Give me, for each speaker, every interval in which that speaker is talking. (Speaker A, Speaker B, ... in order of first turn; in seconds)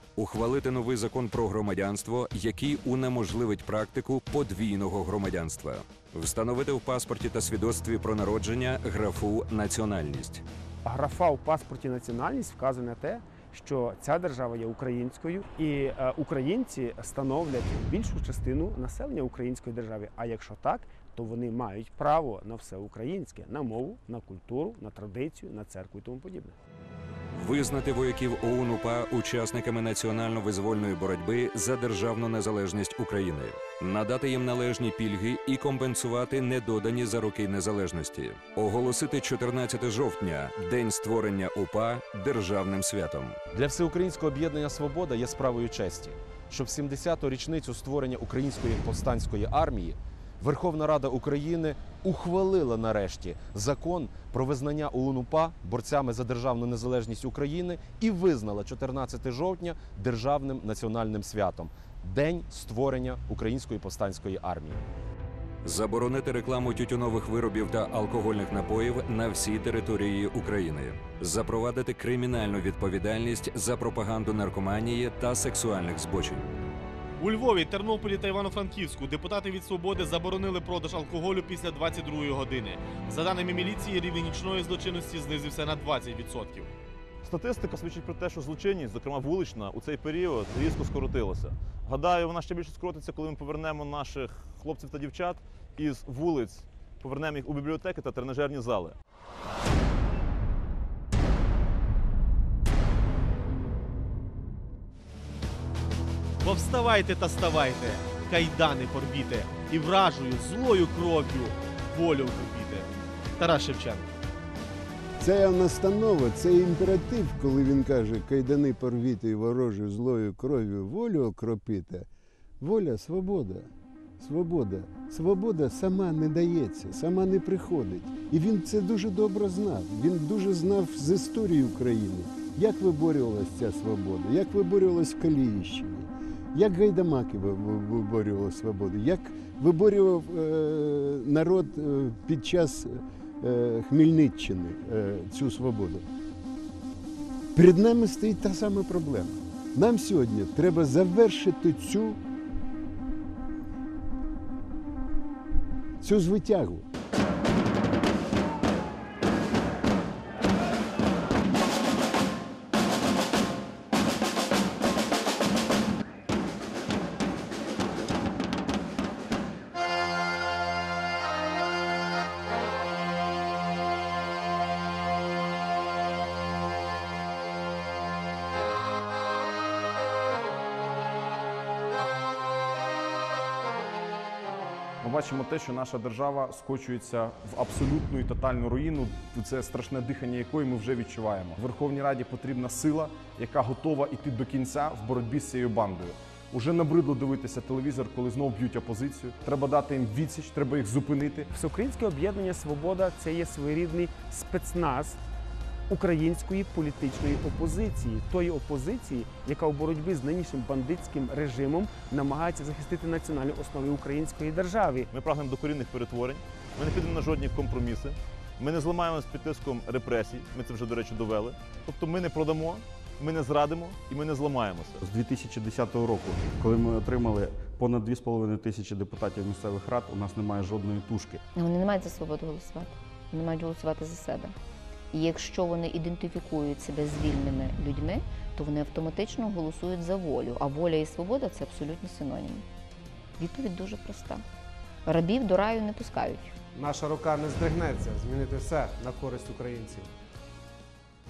Speaker A: 0.2-10.4, 27.3-43.4, 65.6-76.5
Speaker B: 10.9-26.5, 201.6-205.1, 205.9-215.1
Speaker C: 43.5-64.8
Speaker D: 77.2-86.7, 106.4-114.1
Speaker E: 87.2-99.0, 215.1-225.0
Speaker F: 115.2-122.1, 122.6-146.0, 147.5-152.2, 156.0-156.8
Speaker G: 185.0-201.5
Speaker H: 225.0-231.4
Speaker I: 231.5-234.5, 235.1-242.6, 243.4-244.4, 245.1-246.6
Speaker J: 246.7-250.1